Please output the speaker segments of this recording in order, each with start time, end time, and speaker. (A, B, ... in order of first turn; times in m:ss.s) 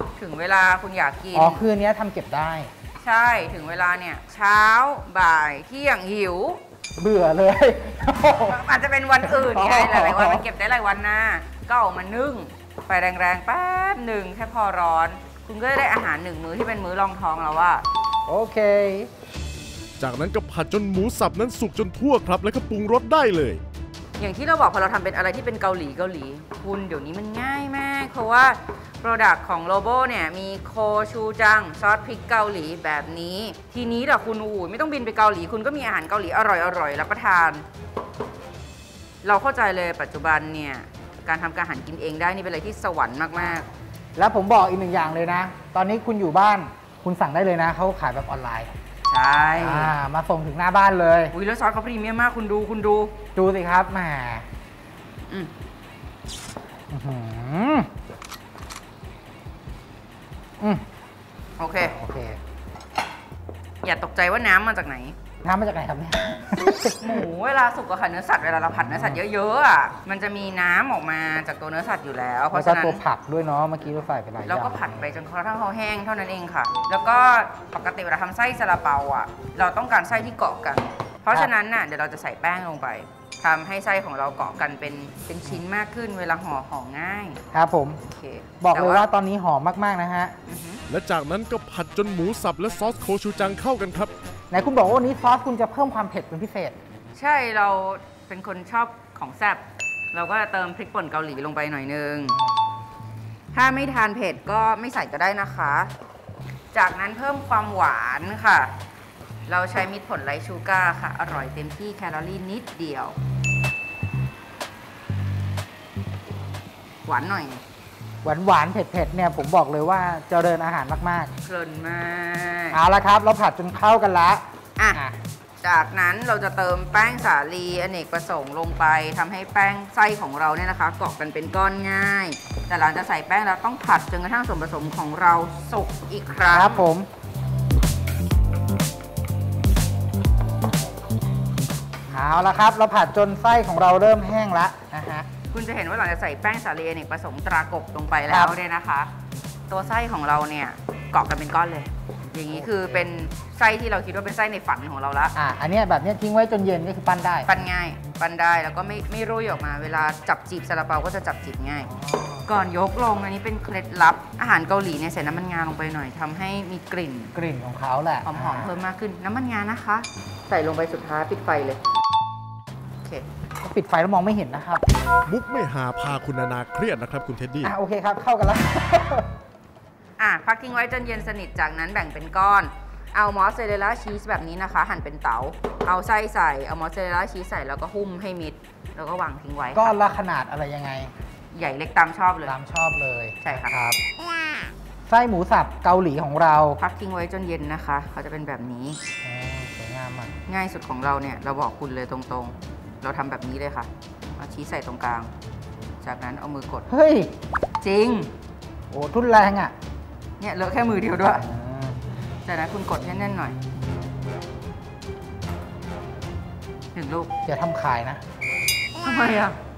0:00.2-0:01.6 A
0:01.3-0:02.7 B
0:03.0-0:06.6 A
0:07.0-0:08.6 B
0:08.4-0:17.8 A
0:09.2-0:10.4 B
0:18.3-0:19.1 B
0:20.0-0:23.6 C
0:24.2-0:37.6 A
0:39.2-0:43.7 A
0:44.2-0:48.7 B
0:49.0-0:49.9 A
0:49.5-0:51.3 B
0:51.3-0:53.1 A
0:53.3-0:54.4 B
0:56.9-0:57.9 B
1:01.6-1:02.0 A
1:01.8-1:02.4 B
1:03.8-1:05.1 A
1:05.4-1:07.2 B
1:07.0-1:13.0 A
1:08.9-1:09.2 B
1:12.5-1:15.0 B
1:14.4-1:27.4 A
1:27.5-1:28.0 B
1:28.1-1:29.0 A
1:28.6-1:30.3 B
1:30.5-1:30.8 A
1:30.9-1:34.1 C
1:34.5-1:36.8 B
1:37.1-1:42.4 A
1:43.5-1:45.9 A
1:46.7-1:48.7 A
1:49.4-1:53.2 A
1:57.0-1:57.6 A
1:58.2-2:01.3 B
2:01.4-2:02.8 A
2:02.7-2:05.2 B
2:05.6-2:16.8 A
2:16.4-2:17.1 B
2:22.1-2:25.2 B
2:25.5-2:29.1 A
2:28.3-2:28.5 B
2:29.7-2:35.3 A
2:32.5-2:33.1 B
2:35.3-2:37.6 B
2:37.4-2:41.9 A
2:41.8-2:42.5 B
2:42.4-2:47.3 A
2:47.3-2:48.8 B
2:48.2-2:51.8 A
2:53.6-2:54.8 B
2:55.3-2:57.7 C
2:57.6-2:59.3 B
3:00.2-3:10.0 A
3:09.7-3:11.1 B
3:11.5-3:12.5 A
3:12.4-3:14.0 B
3:13.4-3:13.7 A
3:15.1-3:16.8 B
3:16.8-3:19.0 A
3:19.2-3:20.3 B
3:20.5-3:25.3 A
3:26.0-3:26.9 A
3:26.9-3:27.3 B
3:27.8-3:28.3 A
3:28.9-3:29.7 B
3:30.4-3:31.5 A
3:31.3-3:32.0 B
3:32.4-3:33.6 A
3:36.9-3:37.3 A
3:37.4-3:38.2 B
3:39.0-3:39.6 A